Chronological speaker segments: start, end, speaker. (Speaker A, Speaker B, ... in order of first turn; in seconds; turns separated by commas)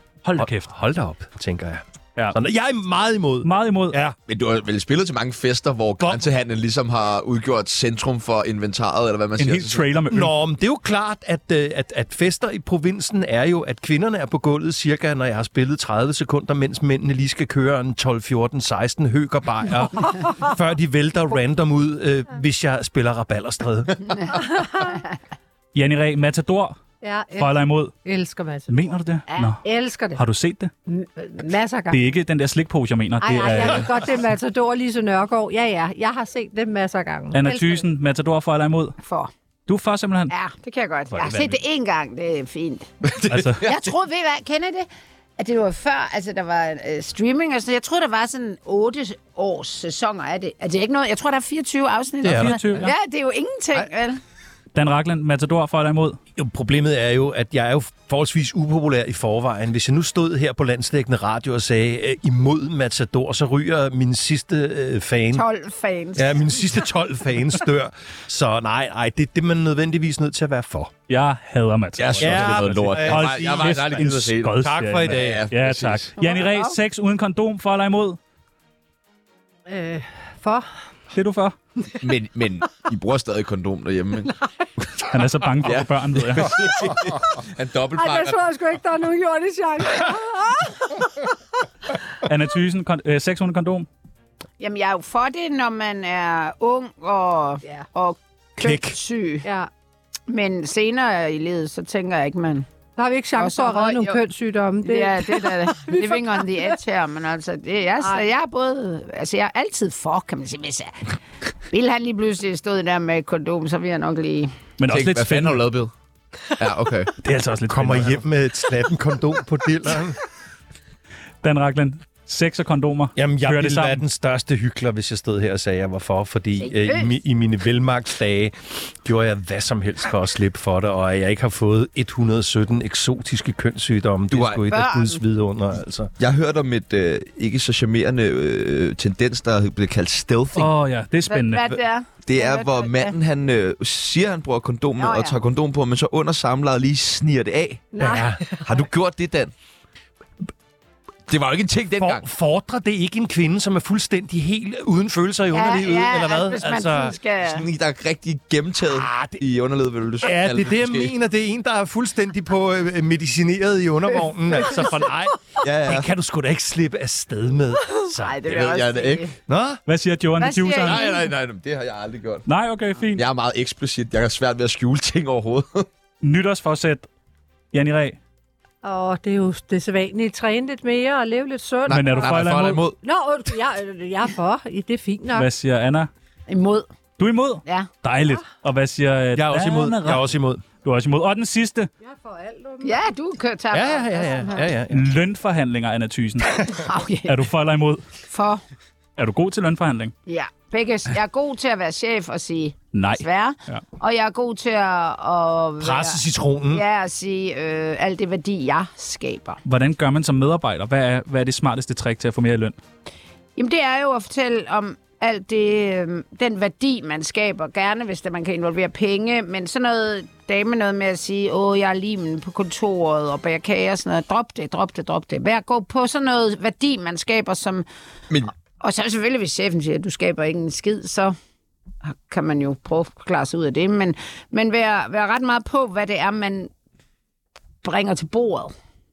Speaker A: 0.2-0.7, Speaker B: 0.4-4.2, Speaker A: 3.4-4.0, Speaker C: 4.3-9.9, Speaker A: 9.4-10.3, Speaker B: 10.1-24.3, Speaker D: 24.5-25.0, Speaker A: 25.7-26.8, Speaker D: 27.0-28.7, Speaker A: 27.4-27.9, Speaker A: 28.7-30.7, Speaker D: 29.6-30.2, Speaker D: 30.9-32.0, Speaker A: 31.9-33.9, Speaker D: 33.2-37.8, Speaker A: 37.3-39.0, Speaker E: 39.0-39.3, Speaker A: 39.7-40.3, Speaker E: 40.3-42.9, Speaker A: 41.1-41.6, Speaker C: 43.0-43.9, Speaker A: 43.3-43.6, Speaker E: 43.6-44.9, Speaker E: 45.4-54.2, Speaker B: 52.2-52.9, Speaker A: 52.2-52.9, Speaker A: 54.7-56.2, Speaker B: 56.4-65.5, Speaker E: 65.3-66.7, Speaker B: 66.2-70.9, Speaker A: 71.1-78.2, Speaker C: 72.0-76.1, Speaker B: 72.2-75.4, Speaker E: 76.2-76.7, Speaker D: 79.7-80.7, Speaker A: 81.1-81.5, Speaker C: 81.9-88.4, Speaker A: 85.1-86.7, Speaker D: 87.9-91.3, Speaker A: 92.2-93.9, Speaker E: 94.6-99.5, Speaker B: 98.6-99.0, Speaker D: 99.4-99.7, Speaker E: 100.3-102.7, Speaker D: 103.0-106.7, Speaker E: 103.4-104.2, Speaker E: 104.8-111.1, Speaker D: 108.0-108.3, Speaker E: 111.7-114.5, Speaker A: 114.8-115.6, Speaker C: 114.9-115.9, Speaker C: 116.6-117.1, Speaker B: 117.2-120.2, Speaker A: 117.5-118.2, Speaker A: 121.4-124.0, Speaker B: 123.2-136.1, Speaker E: 126.6-127.1, Speaker C: 134.3-134.6, Speaker E: 134.7-135.2, Speaker C: 136.2-140.7, Speaker A: 140.5-141.7, Speaker E: 141.3-143.2, Speaker C: 142.2-149.5, Speaker E: 145.0-145.4, Speaker D: 147.9-148.7, Speaker B: 148.0-148.4, Speaker C: 151.3-152.2, Speaker B: 152.0-157.2, Speaker E: 155.5-157.7, Speaker C: 157.4-161.1, Speaker B: 158.9-159.4, Speaker B: 160.2-168.4, Speaker C: 165.6-166.1, Speaker E: 168.2-169.3, Speaker C: 168.5-169.3, Speaker B: 169.5-169.8, Speaker A: 169.9-171.2, Speaker E: 170.4-171.1, Speaker C: 170.8-172.5, Speaker A: 172.5-173.2, Speaker C: 173.1-175.9, Speaker A: 176.2-177.1, Speaker A: 177.7-178.2, Speaker D: 178.8-182.3, Speaker C: 181.9-183.0, Speaker A: 181.9-182.8, Speaker D: 183.0-185.5, Speaker A: 185.3-186.1, Speaker E: 186.5-186.9, Speaker A: 187.2-191.9, Speaker B: 189.3-190.6, Speaker D: 192.0-193.0, Speaker E: 192.8-194.7, Speaker B: 193.7-195.1, Speaker D: 194.2-194.6, Speaker A: 194.9-198.0, Speaker E: 196.7-197.4, Speaker E: 198.3-198.6, Speaker A: 199.2-200.1, Speaker E: 200.3-206.2, Speaker A: 202.9-203.8, Speaker B: 205.8-206.8, Speaker E: 206.7-209.6, Speaker A: 209.6-212.8, Speaker E: 213.6-227.8, Speaker E: 228.8-231.3, Speaker E: 232.0-236.7, Speaker E: 237.8-238.7